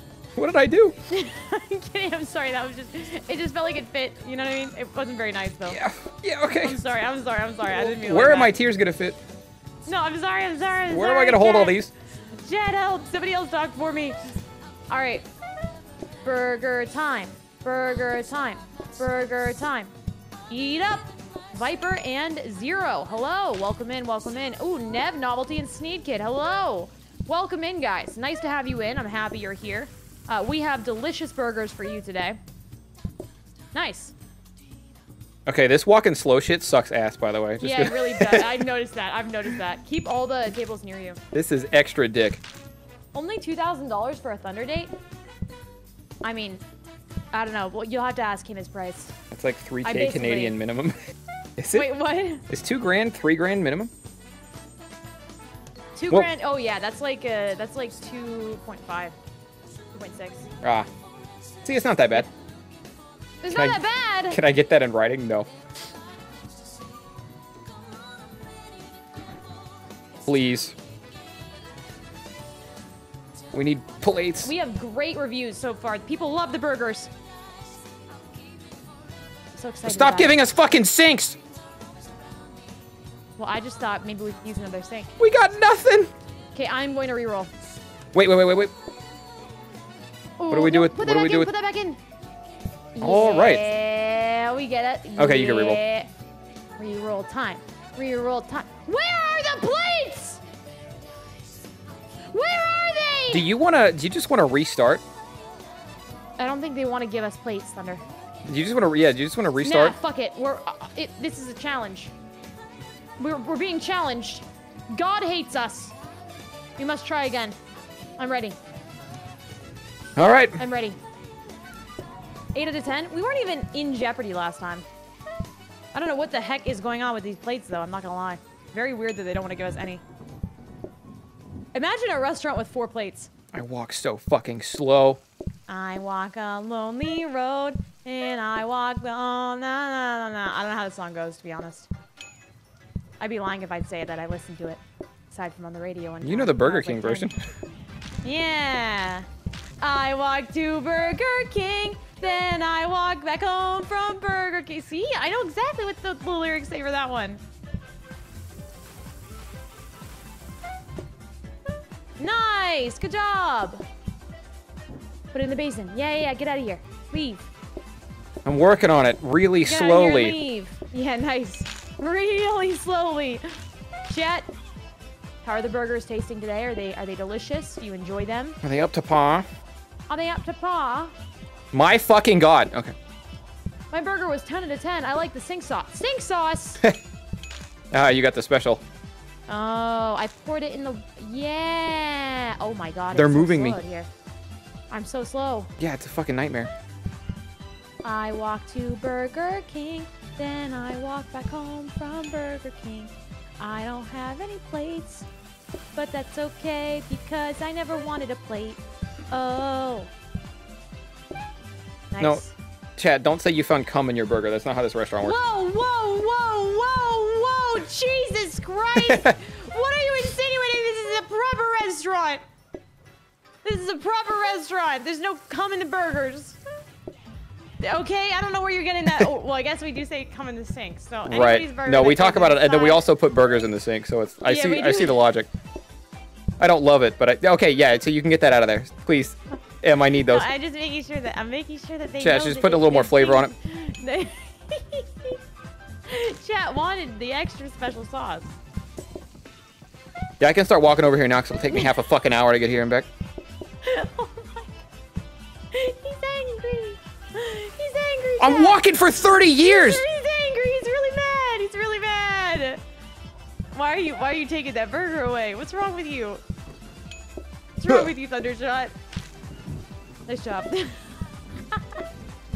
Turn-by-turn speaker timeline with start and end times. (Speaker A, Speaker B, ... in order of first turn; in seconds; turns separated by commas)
Speaker A: 0.3-0.9, Speaker B: 1.1-5.8, Speaker A: 5.7-6.8, Speaker B: 6.6-8.5, Speaker A: 7.6-9.2, Speaker B: 9.8-11.8, Speaker A: 10.9-11.9, Speaker B: 12.3-14.2, Speaker B: 14.9-15.3, Speaker B: 16.2-19.9, Speaker B: 20.5-32.4, Speaker B: 33.7-34.1, Speaker A: 35.5-38.7, Speaker B: 37.6-41.2, Speaker A: 41.3-42.4, Speaker B: 43.1-44.9, Speaker B: 46.2-46.6, Speaker B: 47.3-49.1, Speaker A: 49.3-51.0, Speaker B: 49.8-50.6, Speaker A: 51.6-51.9, Speaker B: 51.7-52.5, Speaker A: 52.5-53.9, Speaker B: 56.0-59.1, Speaker B: 59.9-60.5, Speaker A: 60.6-60.9, Speaker A: 61.6-62.3, Speaker B: 63.4-64.4, Speaker A: 63.5-65.5, Speaker A: 70.2-70.8, Speaker A: 73.5-74.5, Speaker B: 74.4-77.1, Speaker B: 79.5-80.3, Speaker A: 79.8-81.4, Speaker B: 83.4-85.1, Speaker A: 85.2-86.1, Speaker B: 86.5-87.5, Speaker A: 88.1-88.7, Speaker B: 90.4-92.0, Speaker A: 90.5-91.5, Speaker B: 92.9-96.1, Speaker A: 93.0-93.6, Speaker A: 95.2-95.8, Speaker B: 96.8-100.4, Speaker B: 102.3-103.5, Speaker A: 103.3-105.0, Speaker B: 106.4-108.0, Speaker A: 108.5-110.0, Speaker B: 109.6-112.1, Speaker B: 113.2-115.9, Speaker B: 116.8-117.5, Speaker B: 118.2-118.6, Speaker A: 120.2-120.6, Speaker B: 120.6-121.0, Speaker B: 122.5-124.8, Speaker B: 125.9-130.0, Speaker B: 131.7-133.3, Speaker A: 133.5-135.2, Speaker B: 135.7-141.9, Speaker B: 143.2-147.3, Speaker A: 146.2-147.4, Speaker B: 148.2-149.3, Speaker B: 149.8-157.4, Speaker B: 162.2-163.8, Speaker B: 165.3-167.4, Speaker A: 168.4-170.3, Speaker B: 169.6-173.4, Speaker B: 174.1-174.5, Speaker B: 175.4-178.6, Speaker A: 178.6-179.4, Speaker B: 180.1-181.1, Speaker A: 181.7-182.9, Speaker B: 183.9-186.8, Speaker A: 187.9-188.8, Speaker B: 189.5-194.1, Speaker A: 193.1-193.8, Speaker B: 194.9-195.7, Speaker A: 195.8-196.7, Speaker B: 198.0-205.3, Speaker B: 205.9-210.1, Speaker B: 212.1-212.5, Speaker A: 213.0-215.4, Speaker B: 215.2-222.4, Speaker A: 219.0-219.3, Speaker B: 223.6-226.6, Speaker B: 227.8-233.0, Speaker A: 231.2-235.5, Speaker B: 234.4-235.2, Speaker A: 236.6-240.5, Speaker B: 240.2-245.4, Speaker A: 242.2-243.5, Speaker B: 246.1-248.5, Speaker A: 250.4-253.1, Speaker B: 251.7-251.9, Speaker B: 253.8-254.7, Speaker B: 255.7-258.8, Speaker A: 258.4-260.0, Speaker B: 259.6-262.8, Speaker B: 263.7-266.4, Speaker B: 267.8-268.9, Speaker B: 270.3-271.1, Speaker B: 271.7-272.0